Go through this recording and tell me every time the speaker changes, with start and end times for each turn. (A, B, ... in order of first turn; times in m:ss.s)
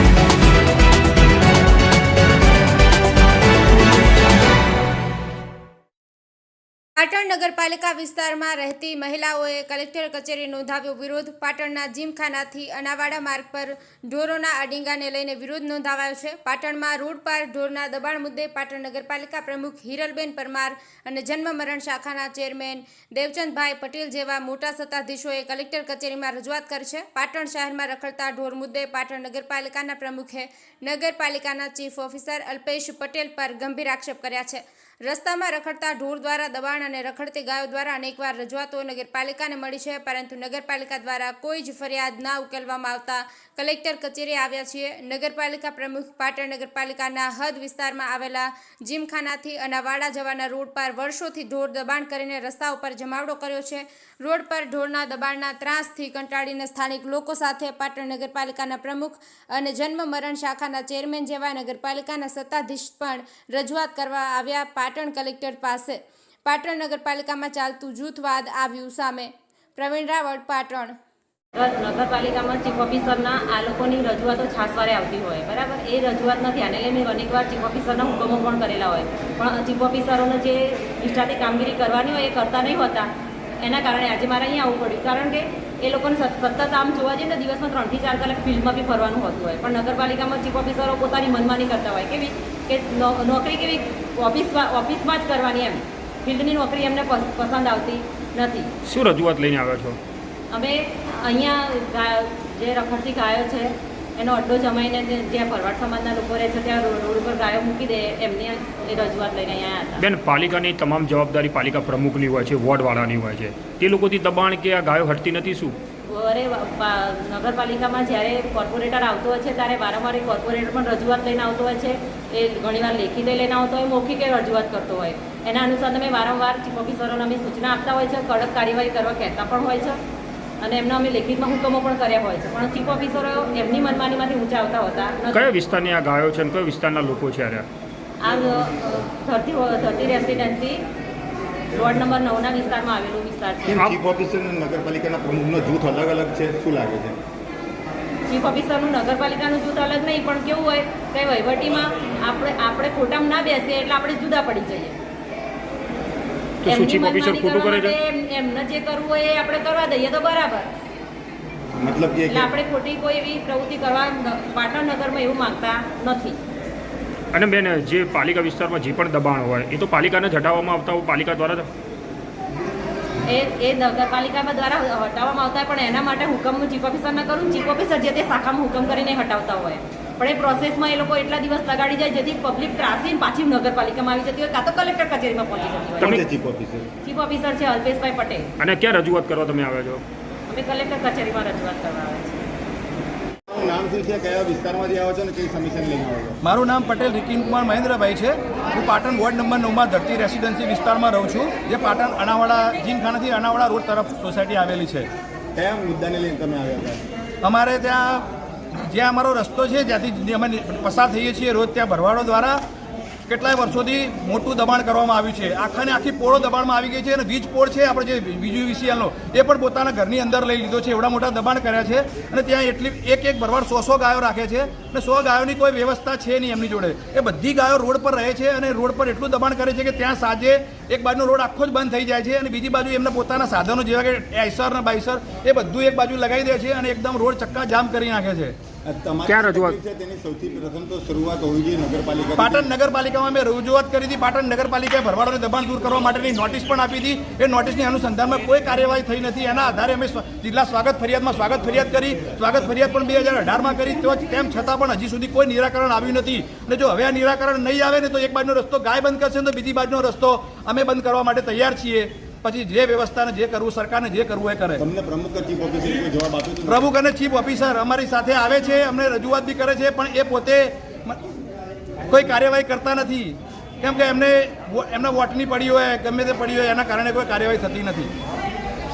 0:07.0-1:11.0 A
1:11.6-1:23.1 B
1:23.6-1:38.7 B
1:38.8-1:40.0 C
1:40.5-1:50.0 B
1:50.0-1:55.8 C
1:56.1-2:10.0 B
2:10.6-2:15.4 B
2:15.3-2:17.7 C
2:18.2-2:20.8 B
2:21.7-2:23.8 B
2:23.7-2:27.2 D
2:28.3-2:35.0 B
2:36.6-2:38.0 C
2:36.6-2:40.7 B
2:41.8-2:42.5 D
2:42.3-2:46.4 B
2:47.3-2:51.7 C
2:53.3-3:06.2 B
3:06.0-3:06.9 D
3:07.0-3:08.5 B
3:08.6-3:10.0 C
3:10.5-3:12.4 B
3:13.5-3:16.4 D
3:16.4-3:25.1 E
3:25.6-3:27.0 D
3:27.4-3:28.2 E
3:28.9-3:32.6 E
3:33.3-3:58.6 E
3:58.8-4:02.8 D
3:59.3-3:59.8 C
4:02.4-4:24.8 E
4:24.8-4:26.9 D
4:26.7-4:31.2 E
4:32.1-4:38.1 E